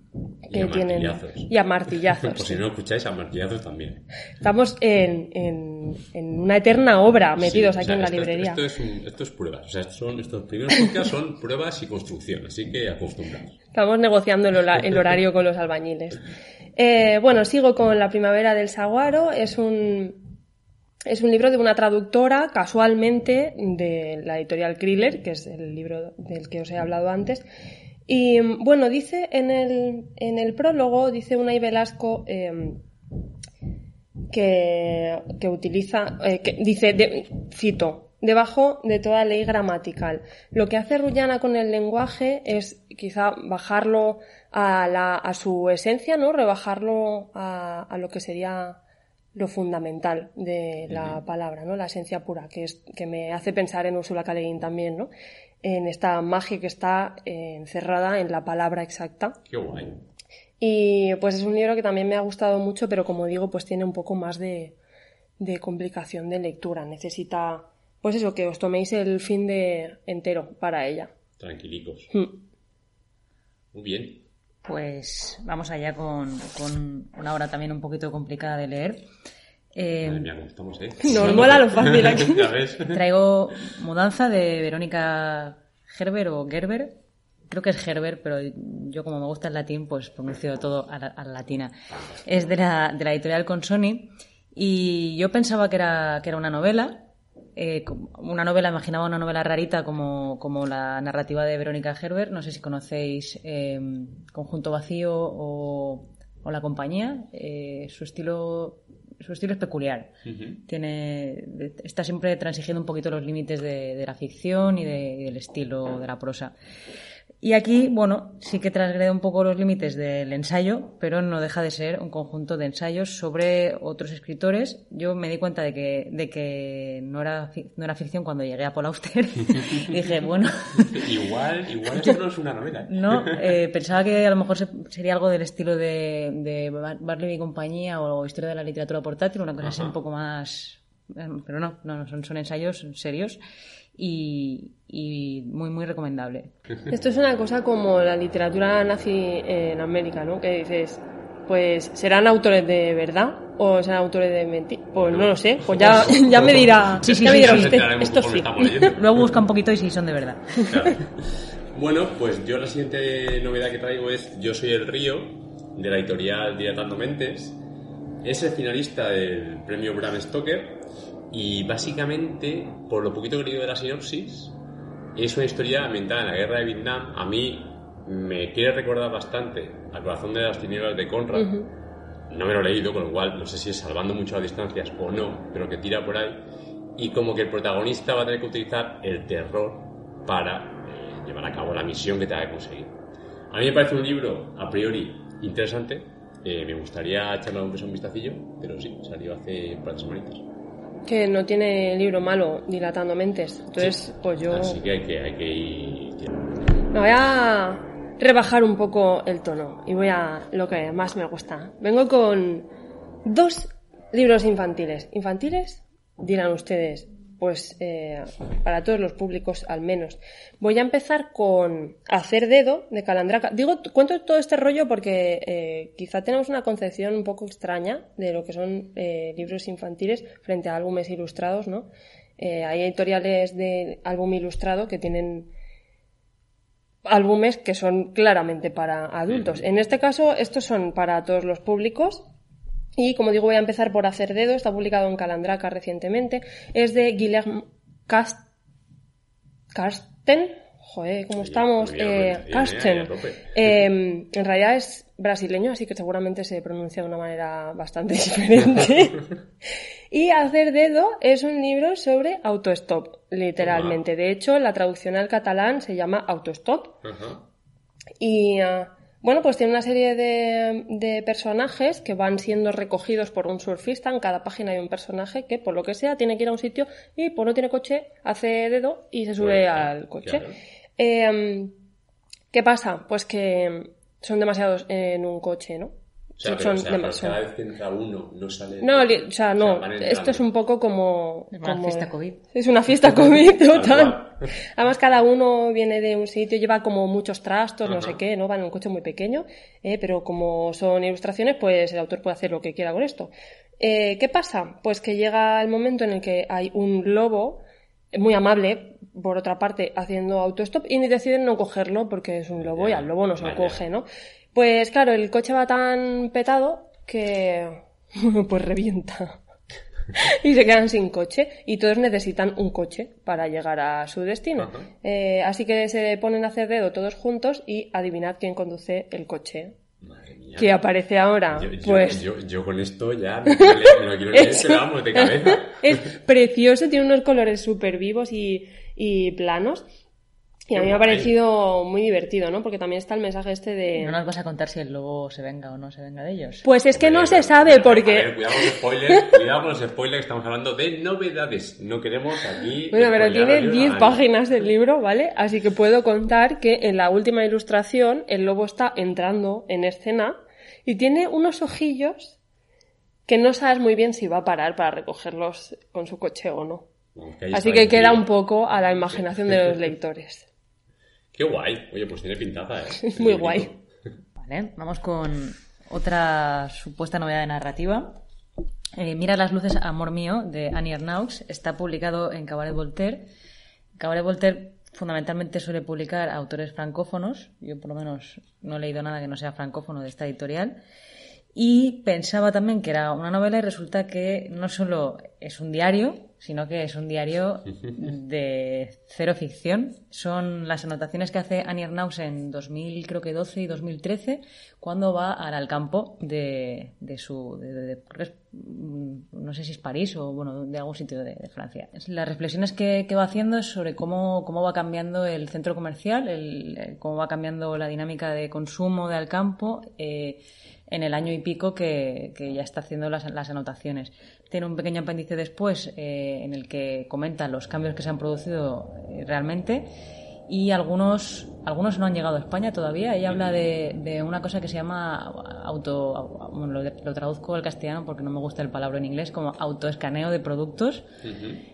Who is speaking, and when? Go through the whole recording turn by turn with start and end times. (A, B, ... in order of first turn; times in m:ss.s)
0:00.5-0:01.5 A
0:00.5-0:02.6 B
0:02.2-0:04.0 A
0:04.4-0:08.6 B
0:07.4-0:13.6 A
0:13.7-0:16.2 B
0:16.8-0:20.2 B
0:21.0-0:27.4 B
0:28.1-0:32.8 B
0:34.3-0:48.8 B
0:49.3-0:55.1 B
0:50.9-0:51.2 A
0:55.6-0:59.4 B
0:59.5-1:00.0 A
1:00.6-1:04.8 B
1:05.4-1:11.1 B
1:11.4-1:12.1 A
1:12.1-1:12.4 B
1:13.7-1:14.2 A
1:14.6-1:19.0 C
1:19.7-1:20.3 C
1:20.0-1:23.0 A
1:21.0-1:22.5 B
1:22.9-1:26.9 C
1:27.5-1:37.0 C
1:37.6-1:50.1 C
1:50.2-1:50.6 A
1:50.6-1:56.5 C
1:57.4-2:11.0 C
2:10.8-2:13.6 A
2:12.9-2:23.4 C
2:19.6-2:19.9 A
2:24.0-2:26.5 C
2:26.9-2:38.9 B
2:35.0-2:39.0 A
2:37.0-2:37.8 C
2:38.8-2:40.7 C
2:40.7-2:47.6 A
2:48.2-2:54.6 A
2:55.2-3:01.5 A
3:01.3-3:01.7 B
3:02.3-3:06.4 A
3:07.0-3:13.0 A
3:13.5-3:20.5 A
3:21.0-3:24.8 B
3:24.5-3:26.6 A
3:26.9-3:32.7 B
3:33.2-3:55.5 B
3:57.0-4:02.3 B
4:03.0-4:08.4 B
4:09.7-4:19.3 B
4:11.4-4:13.8 A
4:20.1-4:27.0 B
4:23.6-4:24.0 A
4:27.0-4:27.4 A
4:28.2-4:40.5 B
4:39.4-4:40.6 A
4:41.0-4:41.8 B
4:42.5-4:47.4 B
4:46.4-4:50.5 A
4:48.8-5:07.6 B
4:51.5-4:52.4 C
4:53.0-4:54.5 A
4:57.8-4:58.2 A
5:08.1-5:19.4 B
5:12.6-5:13.8 A
5:20.1-5:29.7 B
5:24.6-5:24.9 A
5:30.0-5:30.8 A
5:30.6-5:32.2 B
5:31.5-5:36.0 A
5:33.6-5:39.8 B
5:40.7-5:44.2 B
5:40.7-5:41.3 A
5:44.0-5:46.7 C
5:46.6-5:49.4 B
5:46.9-5:54.2 A
5:52.9-6:02.4 B
6:03.3-6:06.8 B
6:07.1-6:08.3 A
6:07.5-6:10.4 B
6:09.1-6:09.7 A
6:11.3-6:13.8 A
6:13.0-6:13.7 B
6:14.4-6:18.2 C
6:19.0-6:23.3 C
6:24.0-6:30.8 C
6:31.5-7:09.9 C
7:10.5-7:21.0 C
7:13.3-7:13.6 A
7:21.2-7:21.6 A